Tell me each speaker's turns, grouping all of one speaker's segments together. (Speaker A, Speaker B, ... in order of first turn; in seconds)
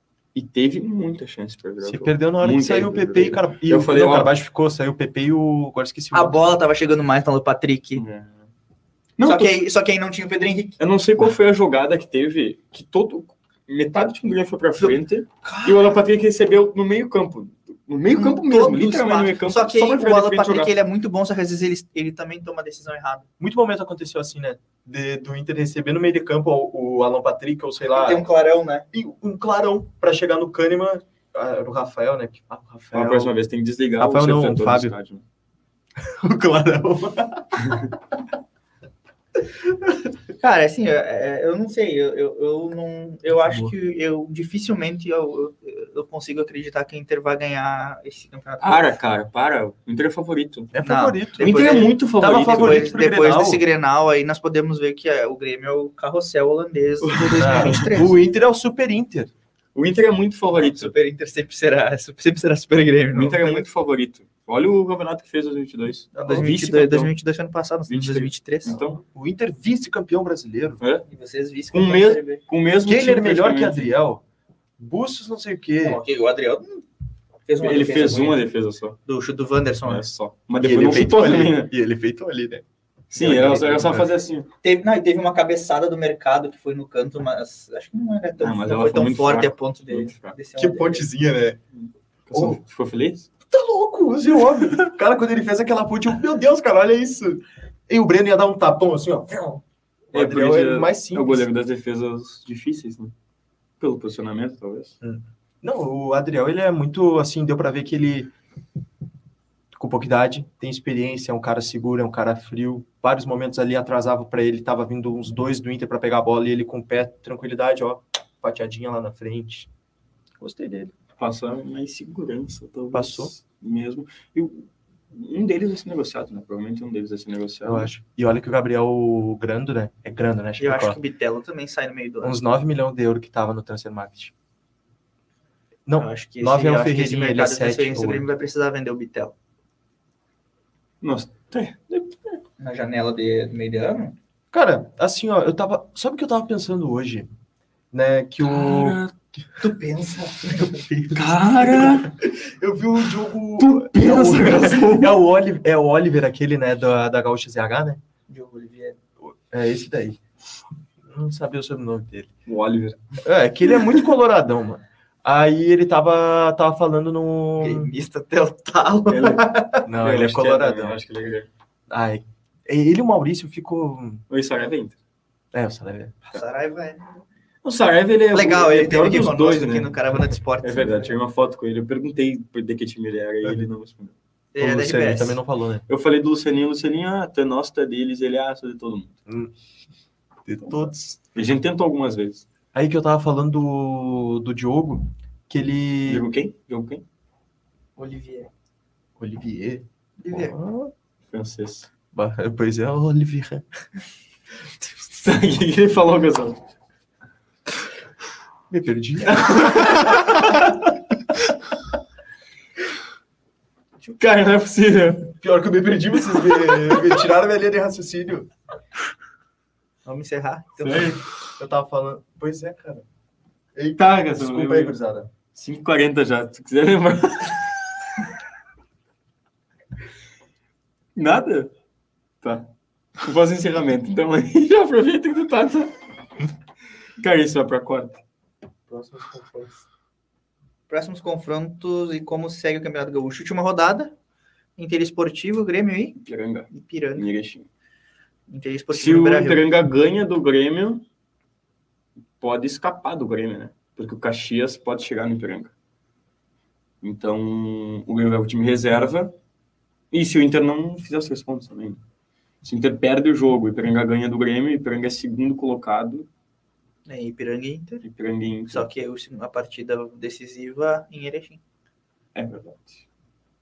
Speaker A: 0.3-4.3, 8.0-8.4, 9.2-9.6, 10.8-20.7, 32.9-35.2, 37.6-37.9, 48.6-50.7, 51.4-52.9, 57.0-58.0, 59.8-60.9, 63.1-67.1, 67.9-69.0, 70.8-71.0, 71.7-73.9, 77.6-79.0, 79.9-81.7, 83.1-84.5, 88.4-90.4, 91.8-93.3, 100.1-103.1, 103.8-105.0, 121.2-127.9, 141.0-142.2, 148.4-149.1, 151.2-152.1, 153.6-155.2, 162.5-163.0, 169.1-169.5, 170.0-171.5, 174.3-175.0, 177.6-179.9, 180.6-184.1, 185.9-189.1, 191.3-192.5, 196.1-197.0, 201.3-201.9, 205.0-206.6, 209.3-210.7, 214.0-215.3, 216.5-217.1, 220.8-221.2, 224.0-224.9, 225.5-227.8, 231.2-231.7, 232.4-235.9, 237.2-238.2, 246.2-247.7, 248.9-251.0, 252.4-255.7, 257.0-259.3, 260.1-262.0, 262.6-266.3, 268.0-268.9, 272.4-273.0
Speaker B: 1.8-6.4, 23.4-28.2, 28.9-33.3, 34.0-35.0, 36.0-37.9, 39.7-40.0, 43.3-43.7, 50.7-53.6, 57.4-59.3, 66.2-66.5, 69.1-70.8, 72.9-74.2, 74.8-76.0, 80.6-82.7, 83.2-84.1, 90.6-91.6, 92.3-92.6, 93.5-101.5, 105.0-108.3, 109.7-119.7, 120.4-120.9, 122.9-123.3, 127.6-131.0, 132.2-134.3, 135.9-138.3, 144.5-147.3, 147.9-149.0, 150.5-158.0, 159.2-160.2, 161.1-162.3, 163.2-167.9, 169.8-171.0, 171.9-174.2, 175.5-176.2, 184.6-185.8, 189.3-189.5, 190.5-191.4, 192.7-196.3, 199.2-200.9, 202.1-203.7, 208.7-210.6, 215.4-218.5, 221.6-223.1, 223.8-225.3, 238.9-239.8
Speaker C: 6.1-8.0, 9.2-10.8, 14.8-15.9, 18.2-23.3, 27.9-28.9, 40.4-48.9, 50.8-58.2, 60.5-63.7, 66.2-68.8, 71.1-72.4, 75.8-76.8, 77.5-78.4, 79.1-80.1, 84.6-91.1, 130.6-132.4, 136.0-139.3, 142.6-144.2, 149.6-150.8, 158.3-159.0, 167.6-169.9, 176.3-177.2, 178.3-181.1, 184.5-185.4, 198.0-198.5, 200.2-200.6, 220.1-221.2, 240.9-244.1, 244.8-246.2, 246.7-247.3, 248.5-249.7, 267.1-268.0, 268.7-271.6